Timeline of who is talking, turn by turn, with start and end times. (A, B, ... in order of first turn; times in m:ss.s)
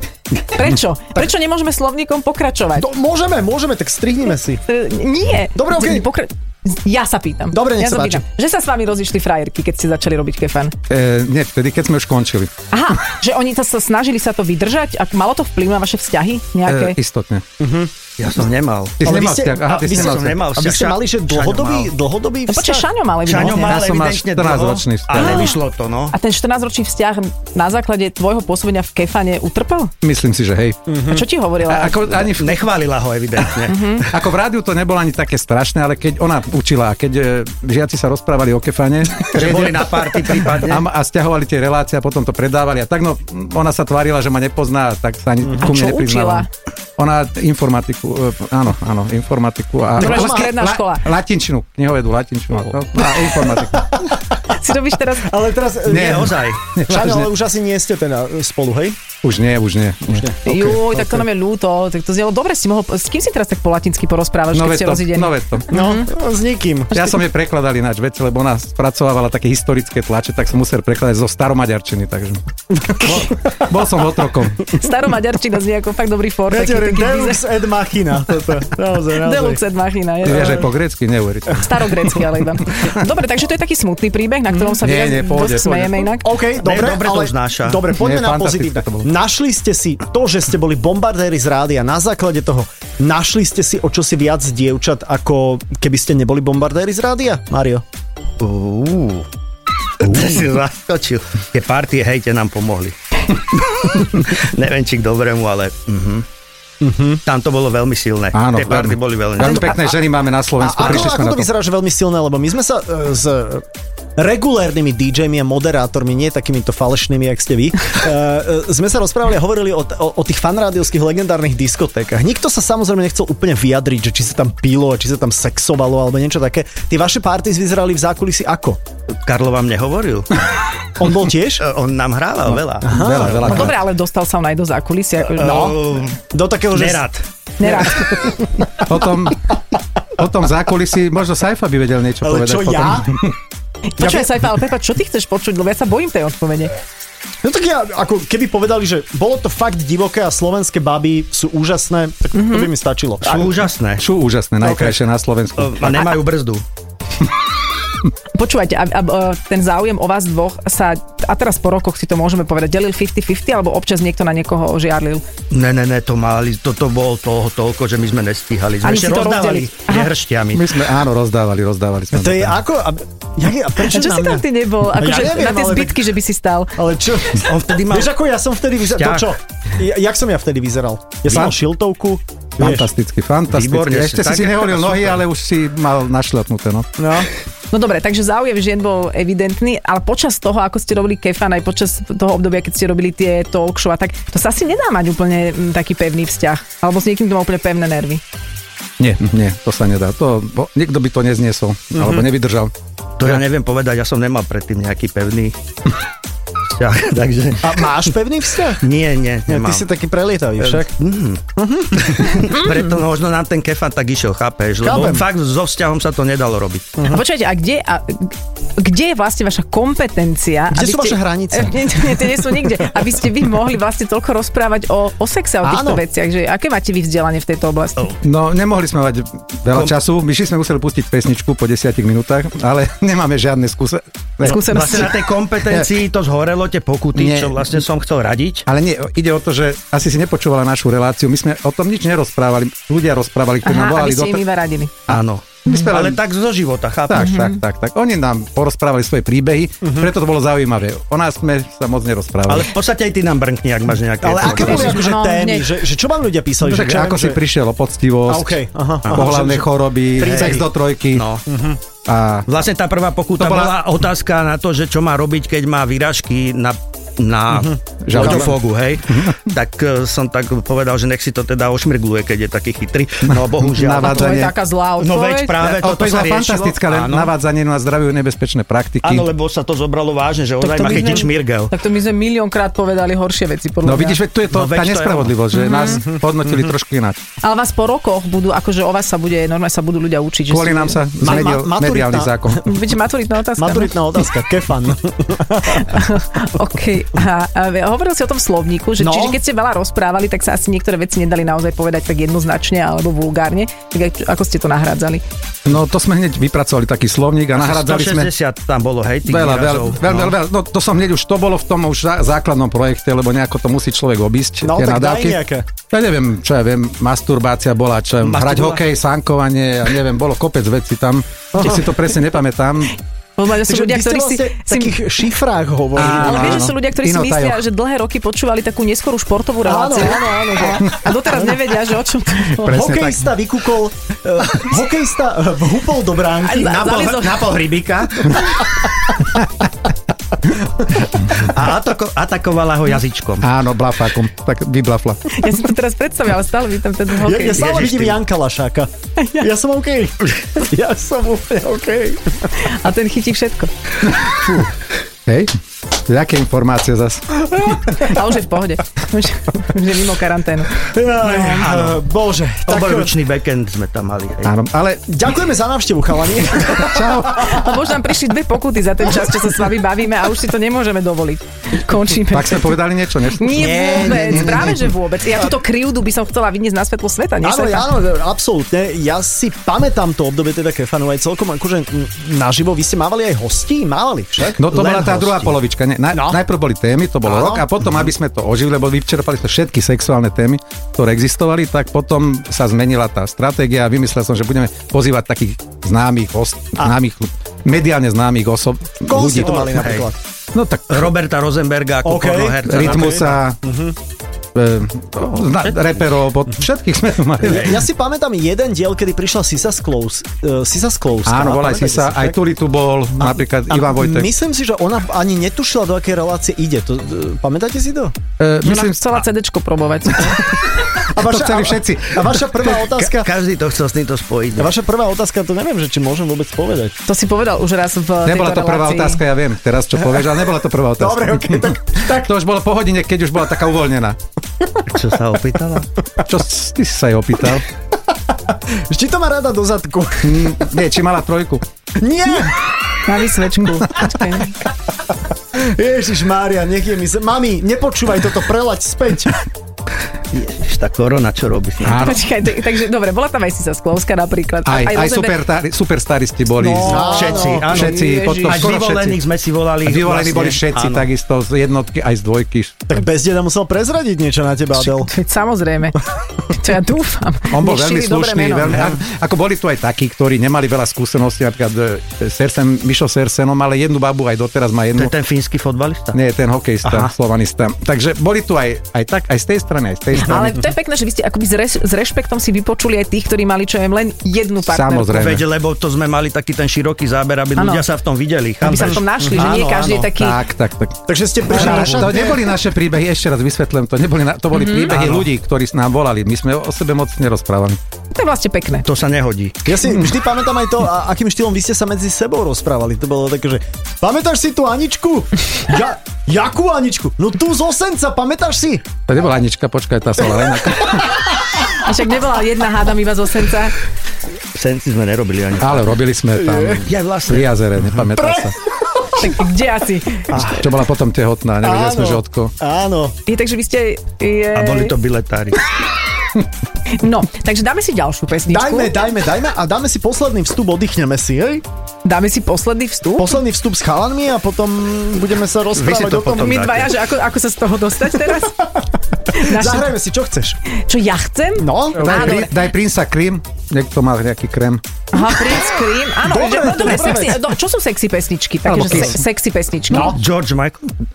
0:00.4-0:02.9 A
0:02.8-0:04.6 B
0:04.7-0:10.8 A
0:05.6-0:06.1 B
0:07.5-0:08.2 B
0:10.9-0:12.5 C
0:12.7-0:17.0 A
0:16.7-0:17.4 C
0:17.6-0:17.9 B
0:18.2-0:21.9 D
0:19.0-0:20.4 C
0:19.0-0:22.9 B
0:22.5-0:23.8 A
0:23.3-0:26.2 D
0:23.6-0:25.5 C
0:25.2-0:25.6 A
0:26.1-0:29.9 A
0:30.0-0:30.8 C
0:30.9-0:31.2 B
0:31.1-0:32.3 A
0:31.7-0:32.6 C
0:32.3-0:34.0 D
0:33.7-0:34.1 A
0:34.1-0:46.5 C
0:39.2-0:40.8 D
0:45.6-0:46.5 A
0:47.0-0:54.0 C
0:50.0-0:51.1 A
0:50.0-0:50.5 B
0:53.2-0:53.8 B
0:54.5-0:55.3 A
0:55.2-0:59.0 B
0:55.9-0:56.6 D
0:55.9-0:57.3 C
0:59.2-1:01.0 C
1:00.5-1:06.1 A
1:04.5-1:05.7 C
1:05.7-1:07.2 B
1:06.9-1:14.7 C
1:13.0-1:13.6 B
1:14.7-1:17.4 A
1:16.5-1:19.6 B
1:19.2-1:20.7 A
1:20.2-1:22.1 C
1:21.5-1:26.3 A
1:24.8-1:26.1 C
1:26.2-1:37.8 B
1:26.6-1:27.9 D
1:28.0-1:29.1 C
1:38.4-1:39.3 D
1:40.0-1:46.3 D
1:46.8-1:47.2 B
1:47.2-1:50.0 D
1:48.3-1:51.5 C
1:50.6-1:53.7 B
1:54.2-2:08.8 B
2:09.2-2:10.3 D
2:11.0-2:11.6 B
2:11.6-2:13.7 D
2:12.5-2:13.8 C
2:12.8-2:13.6 B
2:13.4-2:15.7 A
2:15.4-2:17.2 D
2:15.4-2:17.0 B
2:17.6-2:18.1 A
2:17.6-2:18.6 B
2:18.8-2:19.5 C
2:20.2-2:23.3 C
2:22.2-2:23.2 B
2:24.0-2:26.7 A
2:24.0-2:24.3 B
2:27.4-2:33.6 B
2:32.3-2:32.7 A
2:33.2-2:34.1 D
2:34.0-2:36.1 C
2:34.6-2:35.0 D
2:35.6-2:36.6 D
2:38.4-2:45.2 A
2:45.5-2:50.8 D
2:48.8-2:50.1 A
2:50.5-2:52.6 C
2:52.1-2:56.1 B
2:53.8-2:56.8 A
2:56.8-3:02.9 B
2:57.4-2:58.1 D
2:58.9-2:59.3 D
3:02.6-3:06.9 C
3:03.5-3:05.2 D
3:07.0-3:07.3 B
3:07.7-3:18.2 A
3:19.0-3:22.7 C
3:22.0-3:22.2 B
3:23.2-3:25.6 D
3:26.7-3:28.0 D
3:27.6-3:28.9 B
3:28.8-3:29.9 D
3:29.5-3:30.9 B
3:30.6-3:31.4 D
3:31.6-3:32.5 B
3:32.0-3:36.9 D
3:34.8-3:35.2 B
3:37.0-3:37.2 B
3:37.1-3:48.0 A
3:40.7-3:42.6 B
3:45.6-3:46.0 B
3:48.2-3:55.1 C
3:49.7-3:50.0 D
3:54.4-3:55.2 A
3:54.5-3:58.7 D
3:57.2-3:57.6 C
3:58.7-4:04.4 C
4:03.6-4:04.9 A
4:05.1-4:06.2 C
4:05.1-4:07.4 D
4:07.1-4:12.7 C
4:07.2-4:07.6 A
4:09.8-4:10.1 B
4:12.5-4:15.0 D
4:14.2-4:17.4 B
4:14.4-4:15.8 A
4:16.6-4:18.6 C
4:18.3-4:20.6 B
4:19.1-4:19.6 D
4:19.1-4:21.3 C
4:20.2-4:21.4 D
4:21.5-4:21.8 B
4:22.0-4:22.5 C
4:22.5-4:34.4 D
4:23.4-4:23.8 C
4:27.5-4:28.5 B
4:28.0-4:29.4 C
4:33.3-4:34.6 C
4:34.0-4:35.6 A
4:35.0-4:37.4 D
4:35.6-4:39.3 C
4:39.0-4:41.7 D
4:40.6-4:44.2 A
4:43.8-4:47.2 C
4:44.5-4:45.4 D
4:45.5-4:46.0 A
4:47.4-4:51.0 A
4:50.5-4:52.6 C
4:51.2-4:52.6 B
4:52.6-4:54.0 A
4:53.6-4:56.0 B
4:55.6-5:05.2 A
4:59.0-4:59.4 B
5:05.7-5:08.3 C
5:07.6-5:10.4 D
5:09.2-5:23.0 C
5:14.6-5:15.7 B
5:18.2-5:18.8 D
5:21.6-5:21.9 B
5:23.4-5:25.0 A
5:23.6-5:26.7 B
5:26.0-5:27.6 C
5:26.0-5:32.8 A
5:29.6-5:31.1 B
5:32.6-5:33.3 C
5:32.7-5:37.6 B
5:36.4-5:37.6 A
5:41.3-5:43.5 D
5:43.4-5:45.4 C
5:45.3-5:47.7 A
5:47.2-5:52.5 B
5:47.5-5:48.2 D
5:49.2-5:49.5 A
5:52.6-5:53.7 A
5:54.2-5:54.6 C
5:54.4-5:54.6 B
5:55.3-5:55.5 C
5:56.1-5:57.2 C
5:57.8-6:01.4 A
6:00.8-6:03.1 B
6:01.4-6:02.0 D
6:02.7-6:04.5 D
6:04.4-6:05.1 C
6:05.1-6:07.5 B
6:06.8-6:07.6 C
6:07.4-6:12.8 A
6:12.3-6:14.2 C
6:13.4-6:17.9 A
6:13.6-6:14.7 D
6:13.6-6:14.8 B
6:17.4-6:24.8 B
6:24.6-6:39.8 C
6:24.7-6:25.5 D
6:26.1-6:26.4 B
6:27.2-6:27.7 B
6:39.1-6:40.2 B
6:39.4-6:40.1 D
6:40.5-6:41.1 C
6:40.9-6:43.4 D
6:42.0-6:44.0 B
6:42.6-6:43.6 C
6:44.6-6:47.7 C
6:45.3-6:46.0 D
6:47.4-6:47.8 D
6:47.4-6:52.4 B
6:51.3-6:54.3 C
6:53.2-6:58.2 B
6:58.4-6:59.2 C
6:58.6-7:00.5 A
7:00.3-7:02.3 C
7:01.1-7:03.3 B
7:02.8-7:04.7 D
7:04.6-7:07.0 B
7:07.1-7:09.2 A
7:08.2-7:14.2 C
7:11.0-7:12.3 B
7:14.9-7:15.9 D
7:16.3-7:17.6 C
7:18.5-7:20.6 B
7:20.2-7:21.6 C
7:22.0-7:22.6 B
7:23.1-7:24.6 A
7:25.5-7:29.4 B
7:30.3-7:32.2 D
7:31.8-7:32.2 C
7:31.9-7:35.4 A
7:34.6-7:39.2 C
7:36.6-7:38.8 A
7:36.8-7:37.7 B
7:37.1-7:41.1 D
7:39.8-7:42.8 C
7:42.9-7:45.1 B
7:44.8-7:48.8 A
7:47.5-7:55.1 C
7:48.7-7:49.0 D
7:55.0-7:56.2 D
7:56.1-8:00.5 C
7:56.8-7:57.1 D
8:00.2-8:05.2 A
8:04.7-8:05.4 C
8:05.1-8:10.1 D
8:07.6-8:07.8 A
8:08.6-8:10.4 A
8:08.6-8:09.5 B
8:10.1-8:11.0 C
8:11.1-8:12.5 B
8:11.5-8:17.8 C
8:11.6-8:12.2 D
8:14.5-8:14.9 A
8:14.9-8:15.3 D
8:18.1-8:18.9 A
8:18.8-8:19.6 D
8:19.6-8:29.0 B
8:29.1-8:31.3 C
8:31.8-8:33.8 A
8:34.5-8:36.0 D
8:35.6-8:38.6 C
8:36.4-8:36.9 B
8:36.9-8:37.9 D
8:38.2-8:38.5 B
8:39.2-8:40.4 A
8:40.3-8:40.7 B
8:40.3-8:42.5 C
8:41.6-8:43.2 B
8:43.3-8:45.0 A
8:44.6-8:45.6 D
8:47.0-8:49.0 A
8:48.5-8:51.6 B
8:52.0-8:53.4 A
8:53.2-8:56.7 B
8:55.8-8:57.0 D
8:56.4-8:58.7 A
8:59.3-9:00.0 A
8:59.4-9:00.6 B
9:00.9-9:02.6 A
9:01.6-9:02.4 B
9:02.0-9:04.8 C
9:05.1-9:10.2 A
9:06.2-9:07.5 B
9:08.6-9:09.2 C
9:09.9-9:10.2 B
9:10.0-9:10.9 D